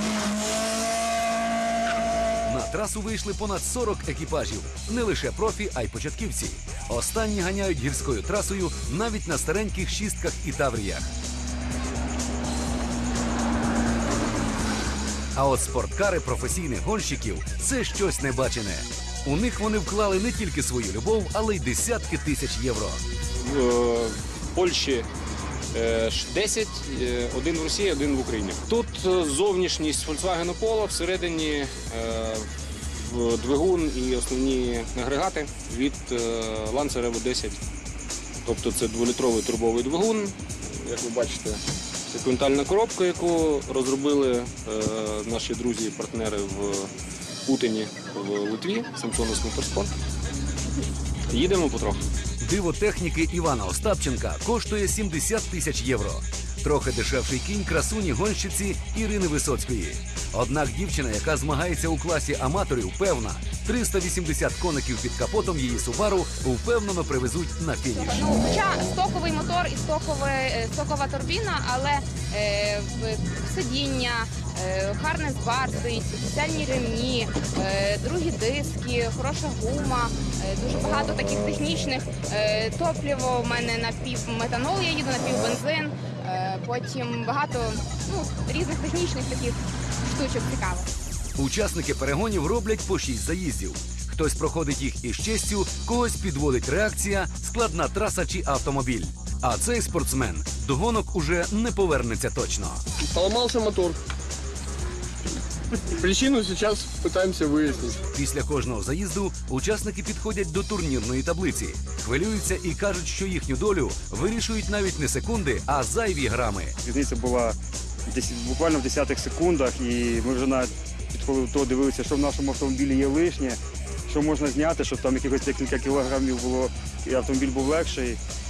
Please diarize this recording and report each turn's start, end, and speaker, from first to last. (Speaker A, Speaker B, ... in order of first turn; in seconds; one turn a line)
Speaker A: 2.5-11.1
Speaker A: 15.4-23.0
Speaker B: 23.4-25.1
Speaker B: 25.7-37.6
Speaker B: 38.4-46.9
Speaker B: 47.5-49.9
Speaker B: 51.3-52.0
Speaker A: 52.4-68.3
Speaker C: 67.9-90.9
Speaker A: 91.4-102.8
Speaker D: 103.1-104.0
Speaker D: 105.9-108.0
Speaker A: 108.1-116.8
Speaker E: 116.8-117.6
Speaker E: 118.1-128.2